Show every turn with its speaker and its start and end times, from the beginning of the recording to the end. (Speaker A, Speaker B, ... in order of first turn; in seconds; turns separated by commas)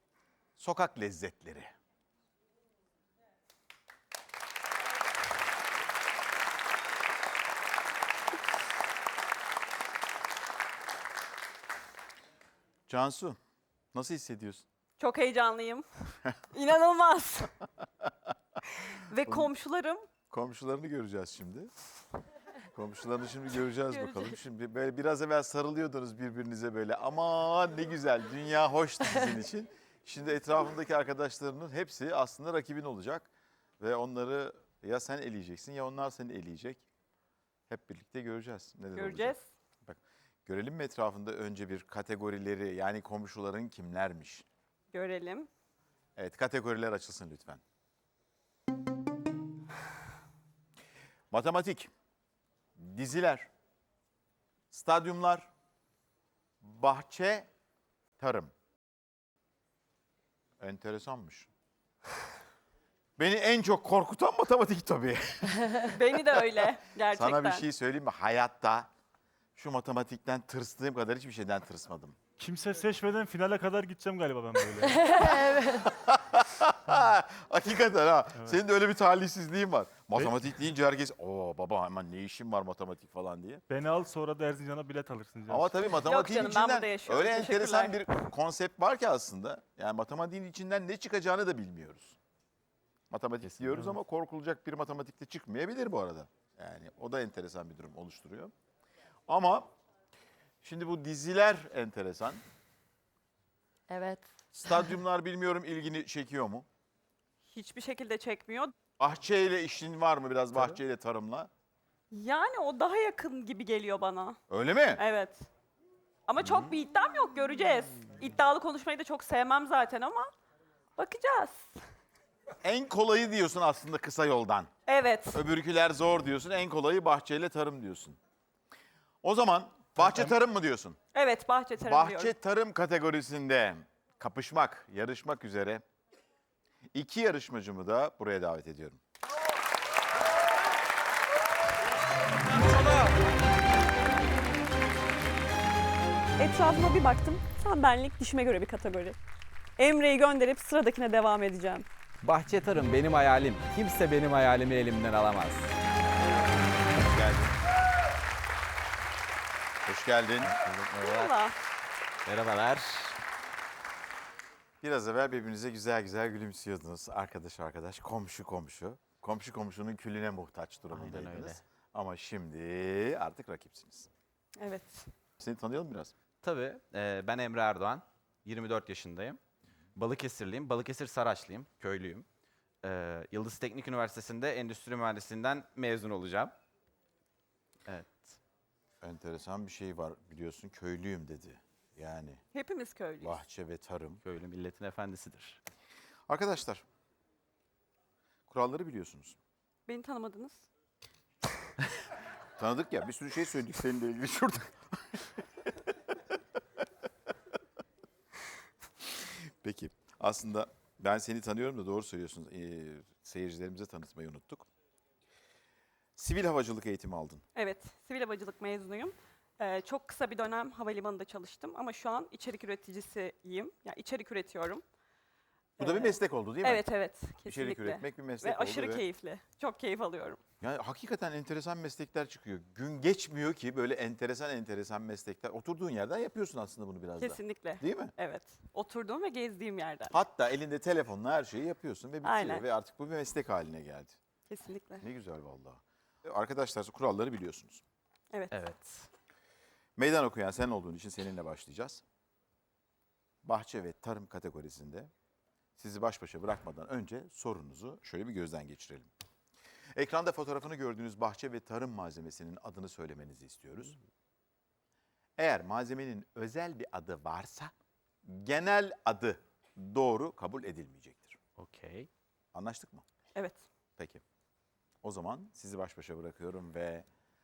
Speaker A: 0.6-1.7, Speaker A: 12.9-13.4, Speaker A: 13.9-14.7, Speaker B: 15.0-15.9, Speaker B: 16.5-17.5, Speaker B: 18.7-20.1, Speaker A: 19.2-19.5, Speaker A: 20.3-21.7, Speaker A: 22.7-36.9, Speaker A: 37.7-44.5, Speaker B: 39.0-39.5, Speaker B: 44.9-45.5, Speaker A: 46.2-47.6, Speaker A: 51.3-51.9, Speaker A: 52.8-53.5, Speaker A: 54.7-55.5, Speaker A: 56.6-57.5, Speaker A: 58.2-58.5, Speaker A: 60.6-61.5, Speaker A: 63.2-66.5, Speaker B: 65.8-67.7, Speaker A: 67.1-68.9, Speaker A: 69.5-72.2, Speaker C: 72.4-75.2, Speaker A: 75.1-83.6, Speaker C: 83.7-86.0, Speaker A: 85.5-92.2, Speaker B: 85.9-88.0, Speaker A: 93.1-98.5, Speaker D: 93.4-93.9, Speaker A: 99.3-99.7, Speaker A: 100.6-102.4, Speaker A: 104.5-106.7, Speaker B: 107.5-108.7, Speaker A: 109.0-111.5, Speaker B: 112.1-114.4, Speaker A: 114.5-115.0, Speaker B: 115.0-115.4, Speaker B: 116.3-120.3, Speaker B: 121.0-121.8, Speaker A: 122.6-124.7, Speaker B: 124.9-125.4, Speaker A: 125.3-128.2, Speaker A: 129.2-131.0, Speaker B: 131.1-132.3, Speaker A: 131.8-135.8, Speaker A: 136.9-139.0, Speaker B: 146.4-149.2, Speaker B: 149.8-151.9, Speaker D: 152.2-155.7, Speaker A: 157.0-157.5, Speaker A: 159.9-160.6, Speaker D: 160.4-161.3, Speaker B: 161.0-161.6, Speaker D: 162.3-163.2, Speaker A: 164.8-174.1, Speaker D: 170.9-171.6, Speaker B: 174.6-175.1, Speaker A: 175.4-176.1, Speaker D: 176.4-179.4, Speaker D: 180.0-182.3, Speaker D: 182.8-186.5, Speaker D: 187.9-188.4, Speaker A: 189.0-192.4, Speaker B: 192.5-193.4, Speaker A: 193.2-194.2, Speaker D: 194.2-195.6, Speaker A: 196.3-196.8, Speaker A: 198.5-199.4, Speaker B: 199.9-200.7, Speaker A: 202.6-205.4, Speaker A: 209.2-214.7, Speaker A: 216.2-217.4, Speaker B: 217.6-224.8, Speaker B: 225.8-230.4, Speaker A: 225.8-226.9, Speaker A: 227.4-229.0, Speaker A: 230.6-238.1, Speaker B: 237.2-240.2, Speaker A: 240.1-244.2, Speaker B: 242.2-242.7, Speaker B: 244.5-245.0, Speaker A: 245.0-247.8, Speaker B: 248.3-248.6, Speaker D: 248.5-249.1, Speaker A: 250.0-252.0, Speaker A: 253.4-255.1, Speaker A: 255.8-259.1, Speaker A: 259.9-264.0, Speaker A: 265.4-267.7, Speaker A: 268.2-271.4, Speaker D: 271.6-272.1, Speaker A: 272.5-273.1, Speaker B: 273.4-273.6, Speaker A: 274.0-274.2, Speaker A: 275.0-277.1